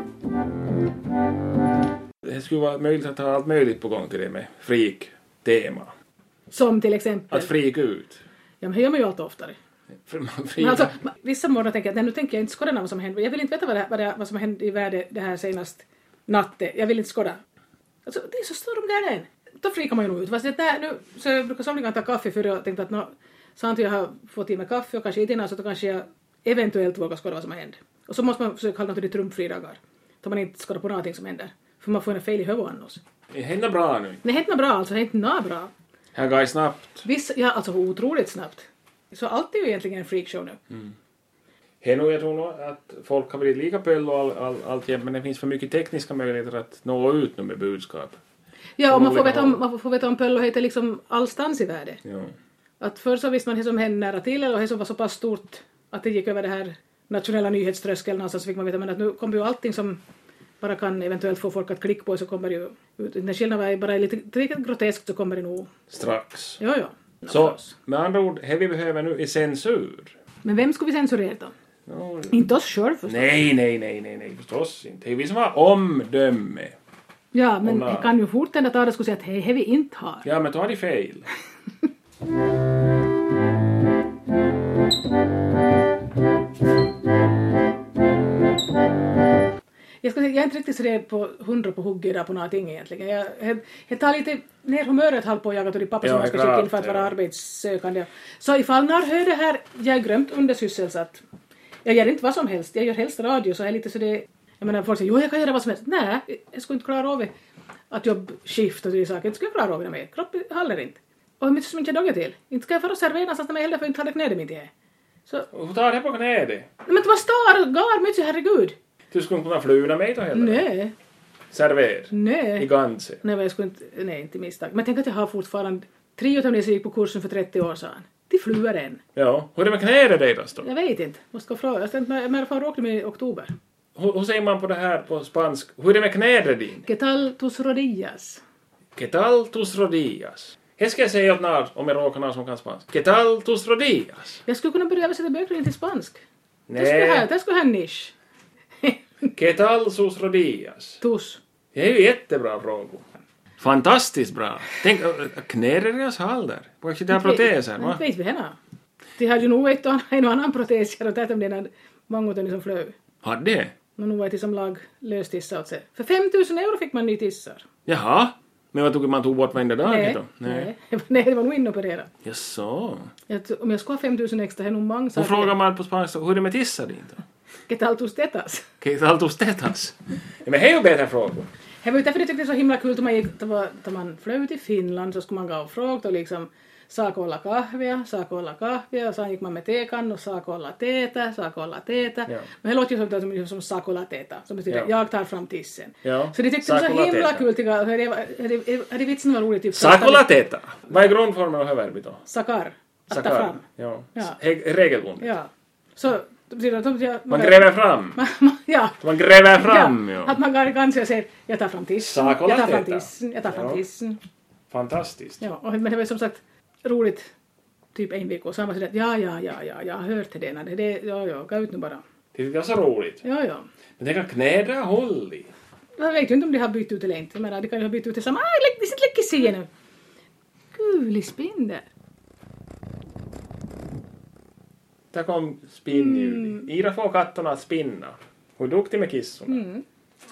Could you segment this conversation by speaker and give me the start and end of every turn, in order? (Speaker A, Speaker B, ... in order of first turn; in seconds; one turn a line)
Speaker A: 2.2-5.9
Speaker B: 6.5-7.5
Speaker A: 7.3-8.2
Speaker B: 8.6-9.6
Speaker A: 10.1-11.0
Speaker B: 10.6-17.4
Speaker B: 18.1-33.0
Speaker A: 33.3-34.2
Speaker B: 34.2-35.7
Speaker A: 36.1-37.0
Speaker B: 37.0-40.6
Speaker A: 41.8-48.2
Speaker B: 48.8-52.0
Speaker A: 48.9-49.6
Speaker A: 52.0-52.3
Speaker B: 52.8-60.0
Speaker B: 60.6-65.7
Speaker A: 65.9-66.6
Speaker B: 66.6-67.7
Speaker A: 67.3-70.2
Speaker B: 70.4-71.5
Speaker A: 71.9-72.4
Speaker B: 72.3-73.3
Speaker A: 73.0-76.8
Speaker B: 77.3-80.3
Speaker A: 77.6-78.1
Speaker A: 80.2-81.2
Speaker B: 90.0-101.2
Speaker A: 96.0-97.1
Speaker B: 101.8-107.3
Speaker B: 107.9-114.7
Speaker A: 115.5-116.7
Speaker B: 116.8-118.8
Speaker A: 119.1-120.7
Speaker B: 120.3-120.9
Speaker A: 121.5-123.2
Speaker B: 122.1-122.7
Speaker B: 123.2-129.0
Speaker A: 129.2-130.7
Speaker B: 130.6-133.5
Speaker A: 134.0-136.9
Speaker B: 136.8-138.4
Speaker A: 139.0-144.4
Speaker B: 144.5-146.2
Speaker A: 146.7-147.3
Speaker B: 146.8-148.1
Speaker B: 148.8-149.3
Speaker A: 149.3-151.0
Speaker B: 151.0-151.4
Speaker A: 151.7-153.1
Speaker A: 153.6-158.0
Speaker B: 157.1-158.6
Speaker B: 159.2-162.9
Speaker A: 163.2-163.8
Speaker B: 164.0-167.7
Speaker A: 167.9-170.7
Speaker B: 169.8-172.1
Speaker A: 172.2-173.1
Speaker B: 173.3-175.5
Speaker A: 175.2-177.2
Speaker B: 177.7-178.7
Speaker A: 178.8-181.5
Speaker B: 181.8-200.3
Speaker A: 196.0-197.5
Speaker A: 199.7-202.2
Speaker B: 202.3-203.6
Speaker A: 203.1-205.3
Speaker B: 205.2-214.2
Speaker A: 207.3-208.2
Speaker A: 209.0-210.4
Speaker A: 212.0-213.8
Speaker A: 214.7-215.4
Speaker B: 215.4-217.3
Speaker B: 217.9-222.0
Speaker A: 222.3-223.2
Speaker B: 223.2-223.7
Speaker A: 224.0-225.5
Speaker B: 226.0-229.7
Speaker B: 230.7-231.9
Speaker A: 235.1-239.6
Speaker B: 235.9-236.7
Speaker B: 239.5-239.8